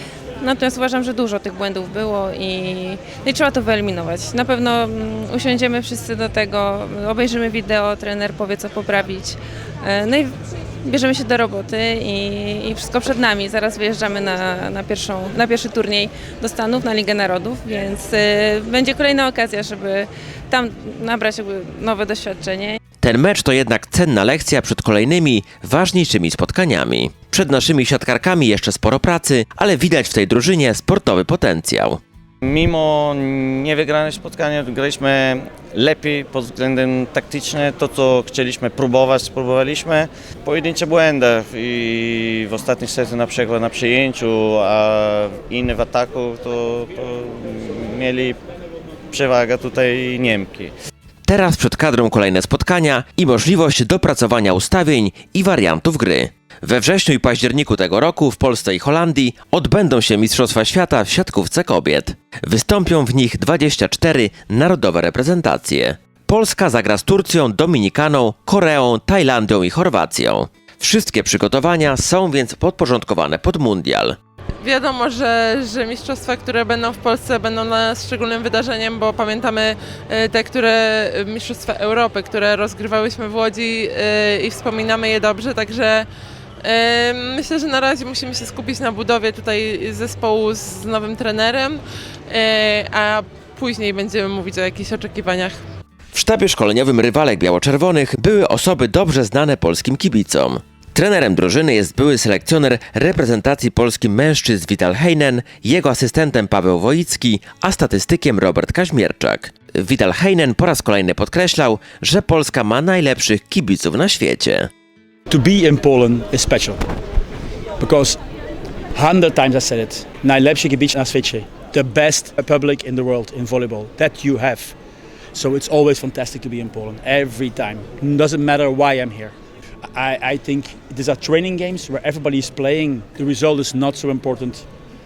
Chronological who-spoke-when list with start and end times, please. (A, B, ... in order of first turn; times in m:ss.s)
0:00.4-0:22.8 A
0:23.0-0:32.0 B
0:32.4-0:48.4 C
0:49.1-0:50.7 C
0:51.3-1:14.2 B
1:14.6-1:26.1 D
1:26.6-1:35.6 D
1:36.1-1:54.7 B
1:55.3-1:56.8 E
1:57.8-1:58.2 E
1:58.9-2:04.8 E
2:05.3-2:09.4 E
2:09.9-2:14.7 E